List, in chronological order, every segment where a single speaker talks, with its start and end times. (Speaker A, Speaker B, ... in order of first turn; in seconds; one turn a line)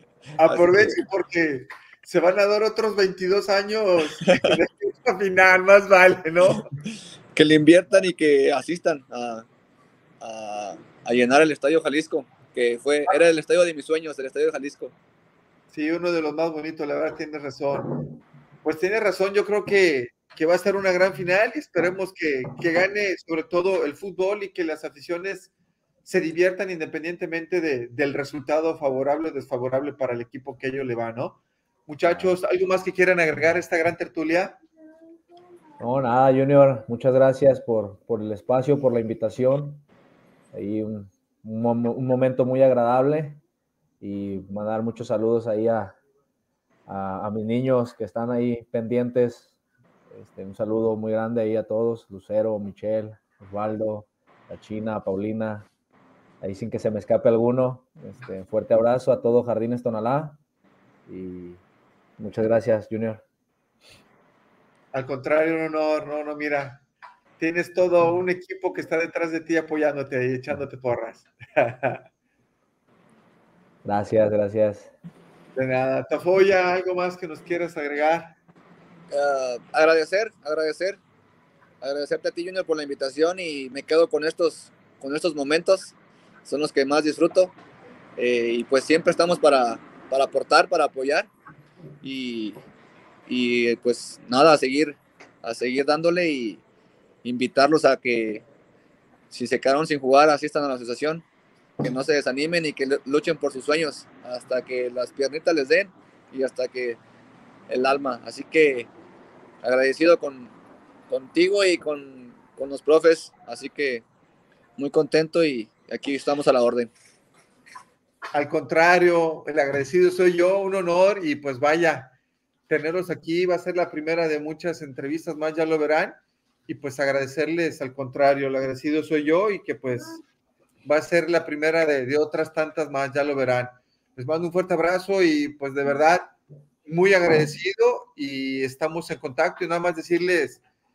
Speaker A: 0.4-1.0
Speaker B: 0.4-6.7
Speaker A: 4.3-4.6
Speaker A: 7.3-9.5
Speaker A: 10.2-14.9
Speaker B: 15.7-17.9
Speaker B: 18.6-25.5
Speaker B: 26.1-34.6
Speaker C: 32.0-32.4
Speaker C: 35.8-39.8
Speaker C: 40.5-43.4
Speaker C: 44.0-46.0
Speaker C: 46.9-49.5
Speaker C: 50.1-55.7
Speaker C: 56.4-60.4
Speaker C: 61.1-61.6
Speaker C: 62.2-63.2
Speaker B: 64.9-66.8
Speaker B: 67.4-72.1
Speaker C: 73.8-74.9
Speaker B: 75.6-78.4
Speaker A: 79.1-81.0
Speaker A: 81.8-87.6
Speaker A: 88.2-91.3
Speaker A: 92.0-92.6
Speaker A: 93.3-96.6
Speaker A: 97.2-98.5
Speaker A: 99.3-101.3
Speaker A: 101.8-107.0
Speaker A: 107.7-108.9
Speaker A: 109.6-110.5
Speaker A: 111.1-114.1
Speaker A: 114.8-116.9
Speaker B: 118.3-122.2
Speaker B: 122.7-130.2
Speaker B: 130.8-136.3
Speaker B: 136.9-140.6